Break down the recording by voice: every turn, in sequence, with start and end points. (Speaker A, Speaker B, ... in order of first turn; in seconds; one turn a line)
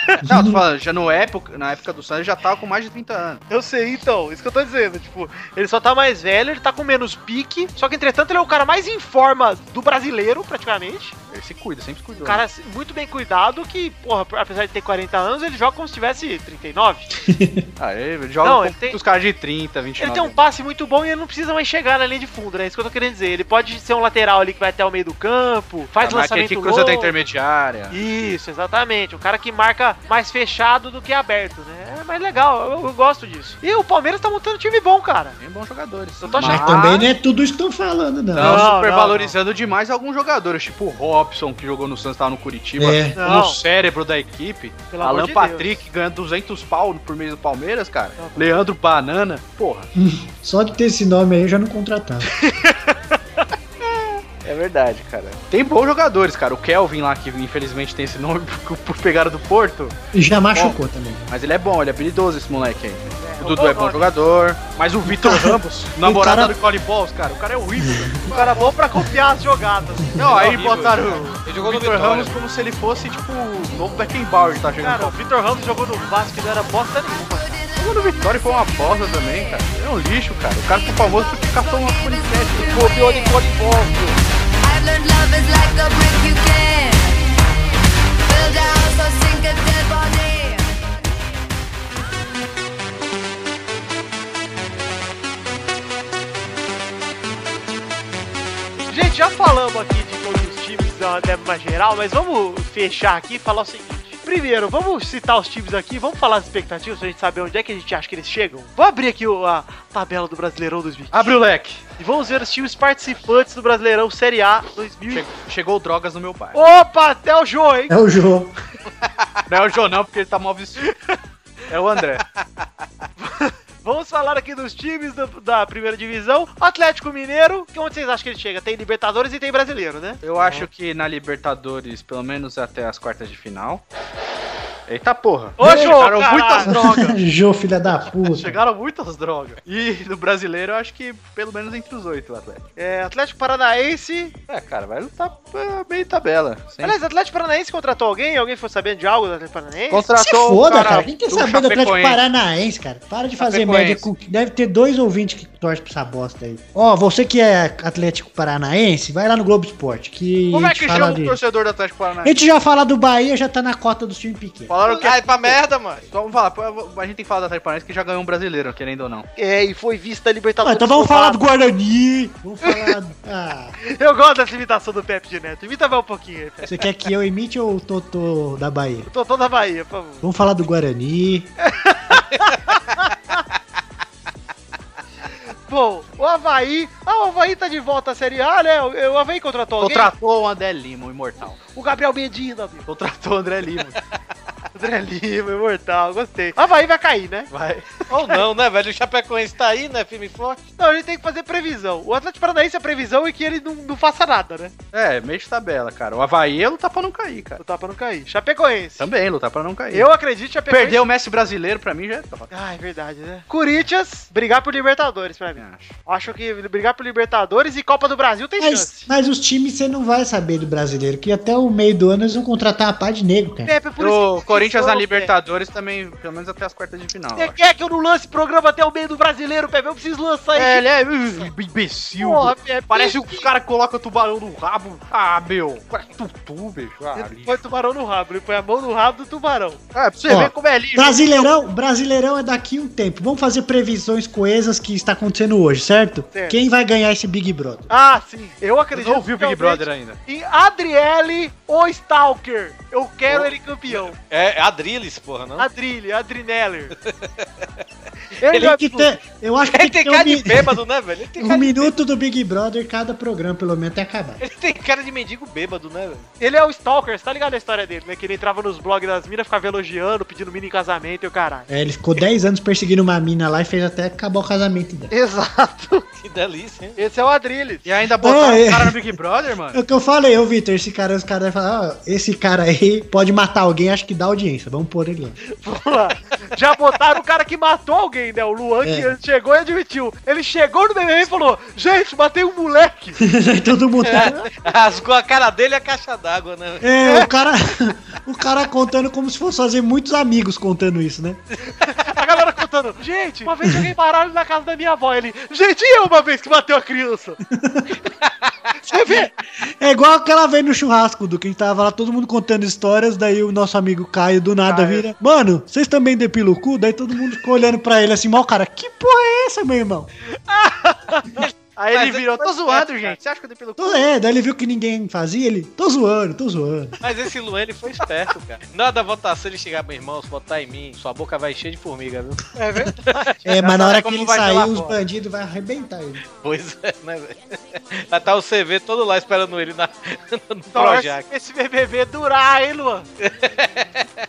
Speaker A: 0.2-0.6
Speaker B: 0.2-3.4
Speaker C: 3.5-11.1
Speaker B: 11.3-12.4
Speaker C: 12.2-17.1
Speaker A: 17.2-17.6
Speaker B: 17.8-20.4
Speaker C: 18.4-19.0
Speaker C: 20.0-27.2
Speaker B: 26.0-28.0
Speaker C: 27.9-35.4
Speaker B: 35.4-37.1
Speaker C: 36.2-36.8
Speaker A: 36.4-38.7
Speaker B: 38.3-49.9
Speaker C: 38.4-39.3
Speaker A: 42.8-43.2
Speaker C: 43.2-43.6
Speaker C: 44.9-45.8
Speaker C: 48.2-48.6
Speaker A: 49.9-52.3
Speaker C: 52.4-52.9
Speaker B: 53.8-59.9
Speaker A: 60.1-61.2
Speaker B: 61.3-68.8
Speaker C: 63.2-64.1
Speaker A: 65.0-66.5
Speaker A: 67.8-68.2
Speaker C: 68.3-70.8
Speaker B: 70.2-75.2
Speaker D: 70.3-72.3
Speaker C: 74.8-77.6
Speaker E: 77.2-79.6
Speaker B: 77.8-82.7
Speaker E: 80.7-83.5
Speaker C: 82.6-84.2
Speaker E: 84.6-87.2
Speaker E: 88.3-90.7
Speaker C: 98.9-111.4
Speaker B: 111.1-111.8
Speaker C: 112.0-115.2
Speaker B: 115.1-116.6
Speaker C: 116.5-117.9
Speaker A: 117.9-118.5
Speaker B: 119.5-120.9
Speaker B: 121.7-122.2
Speaker C: 123.2-130.7
Speaker B: 130.2-133.8
Speaker B: 134.9-137.2
Speaker C: 135.6-136.9
Speaker A: 135.6-136.0
Speaker A: 136.6-138.6
Speaker B: 138.2-142.6
Speaker C: 142.8-144.3
Speaker B: 144.5-147.0
Speaker C: 146.8-150.1
Speaker B: 149.9-152.2
Speaker A: 150.2-161.4
Speaker B: 153.4-154.1
Speaker B: 160.5-162.3
Speaker A: 162.2-164.7
Speaker B: 164.7-169.3
Speaker D: 164.9-166.0
Speaker C: 169.3-171.4
Speaker A: 170.6-173.8
Speaker C: 172.6-172.9
Speaker C: 173.8-176.8
Speaker A: 176.6-179.1
Speaker C: 179.1-180.2
Speaker A: 180.2-181.5
Speaker C: 181.6-183.4
Speaker C: 185.7-190.1
Speaker B: 189.8-191.6
Speaker C: 191.7-192.8
Speaker B: 192.9-194.0
Speaker C: 194.7-197.5
Speaker B: 197.5-198.0
Speaker D: 198.1-200.6
Speaker C: 200.8-204.7
Speaker B: 204.9-207.6
Speaker C: 207.6-209.1
Speaker B: 209.0-210.1
Speaker C: 209.9-211.0
Speaker B: 210.7-212.5
Speaker C: 212.5-219.1
Speaker B: 215.6-215.9
Speaker A: 218.6-223.7
Speaker C: 223.6-225.3
Speaker B: 224.0-227.6
Speaker C: 227.3-231.5
Speaker B: 230.5-237.6
Speaker C: 232.2-233.5
Speaker C: 237.1-239.8
Speaker B: 239.9-241.3
Speaker A: 240.3-247.9
Speaker C: 246.3-246.6
Speaker C: 247.9-254.1
Speaker B: 248.9-250.2
Speaker D: 254.1-255.7
Speaker C: 255.6-256.9
Speaker D: 257.0-257.4
Speaker A: 258.4-260.8
Speaker C: 258.4-259.1
Speaker D: 259.7-261.9
Speaker A: 261.4-264.4
Speaker D: 264.4-266.3
Speaker C: 266.4-271.7
Speaker A: 271.7-275.1
Speaker C: 275.1-276.1
Speaker D: 276.2-277.0
Speaker C: 277.0-277.8
Speaker B: 277.8-279.8
Speaker A: 278.2-279.1
Speaker A: 279.7-285.4
Speaker C: 285.4-293.2
Speaker A: 288.8-289.1
Speaker A: 293.2-294.5
Speaker D: 294.0-296.9
Speaker A: 296.8-301.4
Speaker C: 301.6-307.4
Speaker A: 307.5-308.0
Speaker C: 308.8-309.3
Speaker A: 308.9-320.1
Speaker C: 321.1-321.4
Speaker B: 321.8-324.1
Speaker D: 321.9-322.9
Speaker A: 323.8-327.0
Speaker D: 327.0-332.5
Speaker C: 332.6-333.8
Speaker D: 333.1-333.3
Speaker A: 333.4-336.2
Speaker B: 333.9-334.8
Speaker D: 336.4-341.2
Speaker C: 340.7-343.1
Speaker D: 343.2-344.1